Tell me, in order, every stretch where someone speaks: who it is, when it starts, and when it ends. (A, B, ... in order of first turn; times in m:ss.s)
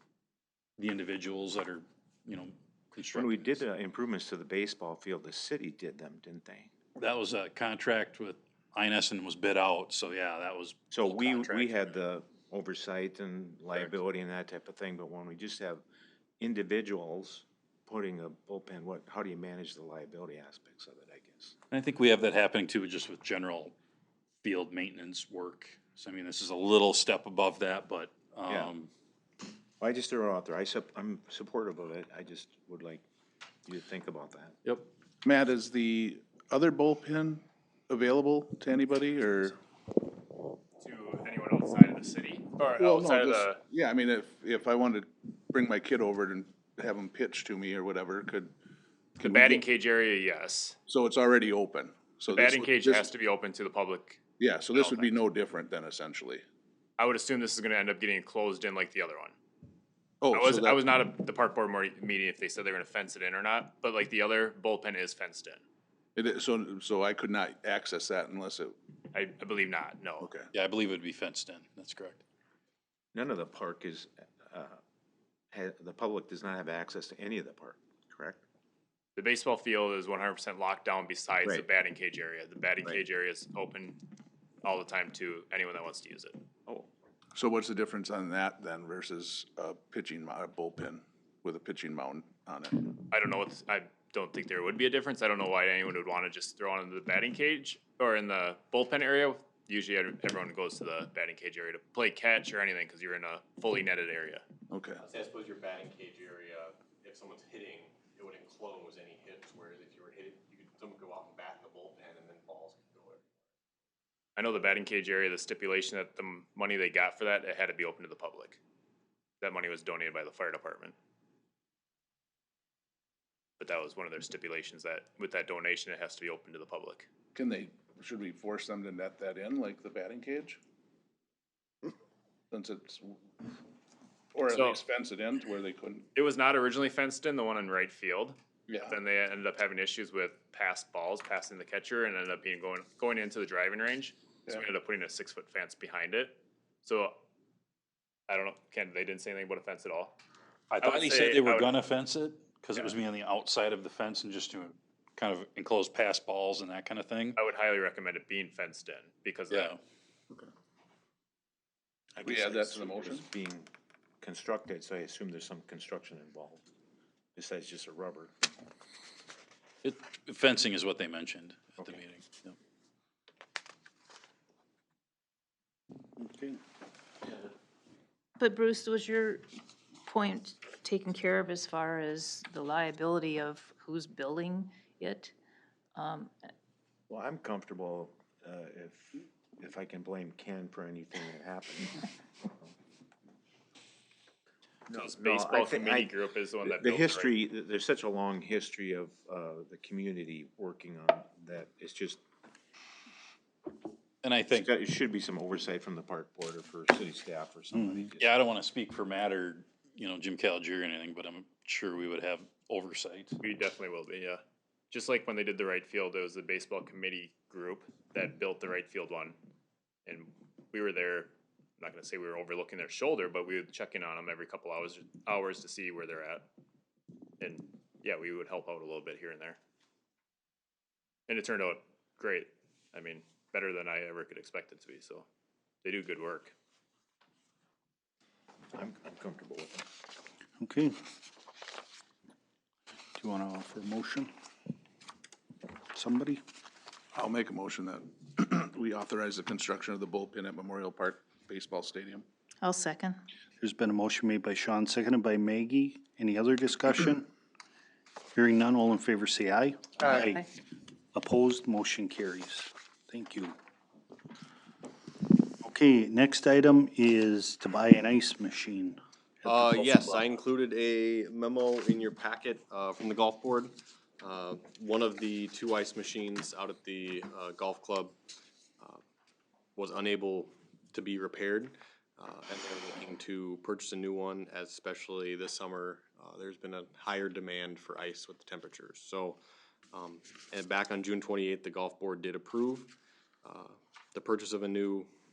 0:00.8-0:03.6 A
0:03.1-0:06.7 B
0:07.0-0:11.8 A
0:10.9-0:15.8 B
0:16.4-0:21.6 B
0:21.7-0:23.8 A
0:24.4-0:28.9 A
0:28.5-0:28.7 B
0:29.8-0:33.0 B
0:33.7-0:34.6 B
0:35.2-0:39.6 C
0:40.8-0:43.6 D
0:42.6-0:48.5 C
0:49.2-0:49.6 C
0:49.2-0:50.8 D
0:50.9-0:53.1 C
0:52.3-0:54.2 D
0:54.4-0:56.4 C
0:54.7-0:55.1 D
0:57.0-0:59.4 D
1:00.2-1:00.8 C
1:00.3-1:05.6 D
1:06.2-1:08.8 C
1:09.1-1:10.3 D
1:10.2-1:10.5 C
1:10.5-1:12.2 A
1:13.1-1:14.8 B
1:15.5-1:18.4 B
1:19.2-1:24.1 D
1:24.6-1:26.4 D
1:27.4-1:33.0 C
1:33.1-1:44.4 D
1:44.7-1:45.0 C
1:45.0-1:53.3 E
1:54.4-1:58.6 D
1:59.4-2:01.0 D
2:03.6-2:07.1 D
2:07.4-2:10.6 C
2:12.5-2:13.2 C
2:14.3-2:16.1 C
2:14.5-2:14.8 D
2:16.2-2:27.2 D
2:18.7-2:19.0 C
2:28.3-2:30.2 D
2:30.7-2:37.4 A
2:30.8-2:31.8 D
2:37.4-2:39.8 D
2:39.5-2:39.8 A
2:42.2-2:43.7 B
2:42.2-2:43.3 C
2:44.2-2:46.6 B
2:47.4-2:48.3 B
2:49.8-2:52.6 A
2:56.2-2:56.6 F
2:58.4-2:59.5 G
3:00.0-3:05.3 G
3:06.0-3:06.3 G
3:07.1-3:12.1 B
3:14.9-3:22.2 B
3:14.9-3:17.4 D
3:24.2-3:24.7 A
3:24.5-3:28.3 B
3:28.2-3:33.4 A
3:33.4-3:39.4 D
3:40.1-3:46.5 D
3:47.4-3:49.6 D
3:51.3-3:55.3 D
3:55.8-3:56.5 D
3:58.7-3:59.9 B
4:00.6-4:01.0 F
4:03.2-4:04.3 F
4:05.9-4:06.4 F
4:07.2-4:12.3 C
4:12.6-4:13.2 G
4:13.6-4:17.3 F
4:18.4-4:20.5 F
4:20.0-4:20.5 G
4:21.1-4:23.6 F
4:25.6-4:30.4 F
4:29.4-4:38.2 E
4:39.8-4:49.4 E
4:49.9-4:55.1 E